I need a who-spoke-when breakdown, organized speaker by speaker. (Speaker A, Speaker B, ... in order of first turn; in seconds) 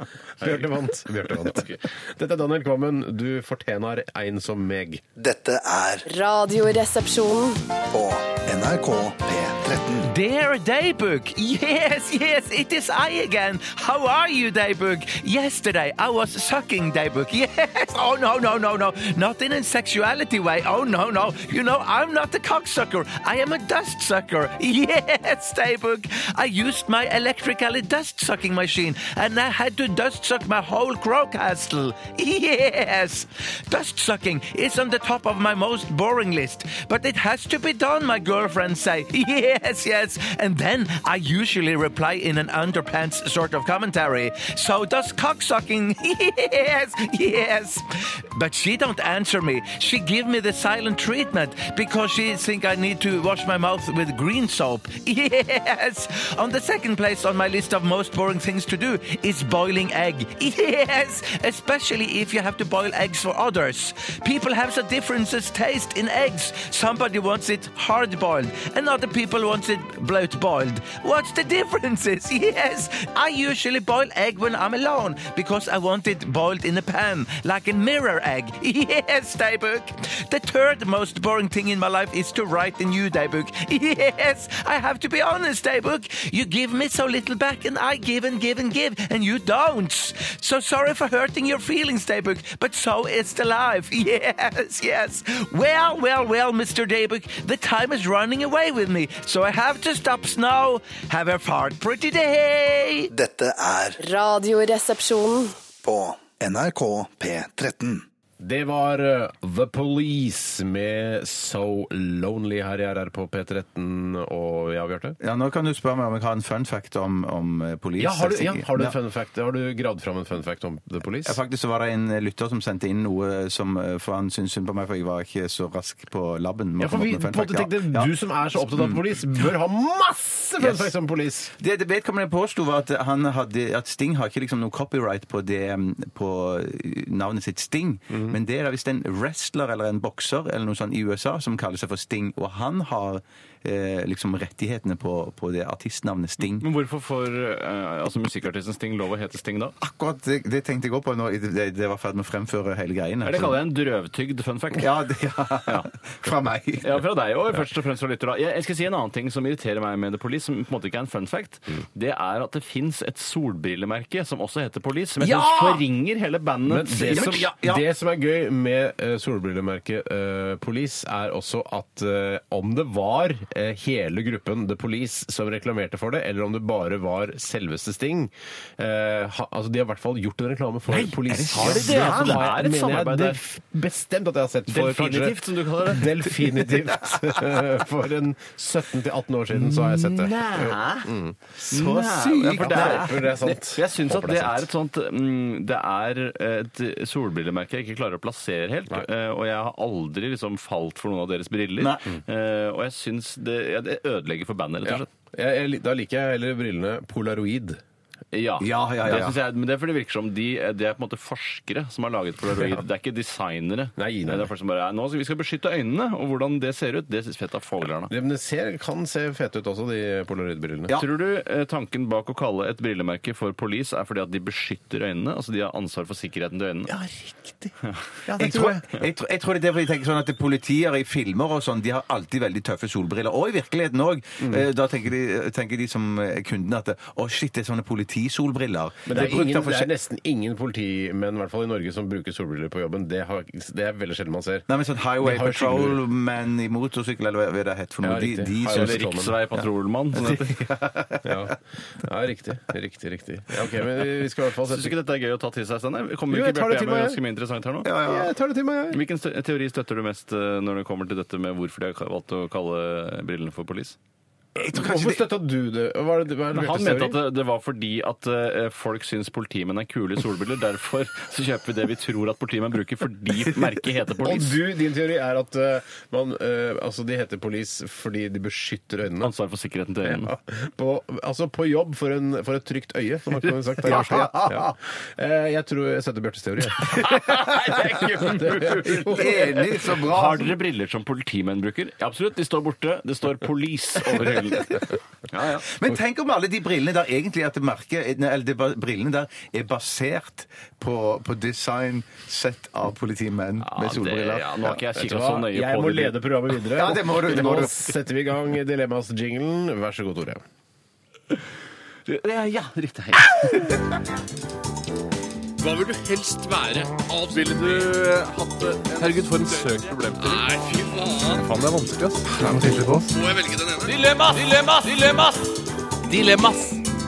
Speaker A: 0.4-5.0, 108.4-115.2, 118.0-121.4, 126.8-131.5, 166.7-191.4, 192.6-194.7, 204.8-207.8, 214.0-214.5, 218.1-220.9, 226.9-228.8, 239.1-244.7, 245.2-246.0, 248.0-249.4, 251.2-255.0, 256.3-257.2, 258.0-259.0, 264.6-267.2, 274.2-279.3, 280.0-287.1, 288.0-289.7, 304.7-310.4
Speaker B: 5.2-6.0, 7.9-10.1, 103.1-104.0, 105.8-108.0
Speaker C: 6.1-7.6, 104.0-105.5
Speaker D: 10.1-103.1
Speaker E: 115.2-119.0, 121.2-129.0, 130.6-130.9, 131.6-146.7, 149.8-153.6, 154.8-156.9, 165.2-165.8, 167.1-167.8, 181.2-182.4, 191.6-193.2, 201.8-202.1, 208.6-209.4, 228.3-239.9, 244.7-249.1, 250.1-251.5, 257.9-258.3, 264.6-265.3, 283.9-284.6, 289.0-290.6, 295.7-304.7, 306.7-307.9
Speaker F: 146.5-149.8, 153.2-154.9, 156.8-167.5, 180.9-183.4, 184.7-186.2, 189.6-191.1, 191.7-205.1, 208.3-218.1, 220.9-226.9, 248.7-250.6, 254.6-257.9, 258.9-264.0, 266.5-274.6, 279.2-280.3, 283.8-284.4, 286.9-295.7, 303.6-306.2, 312.1-313.8, 315.6-320.7, 323.8-325.4, 326.1-326.8
Speaker G: 321.2-323.8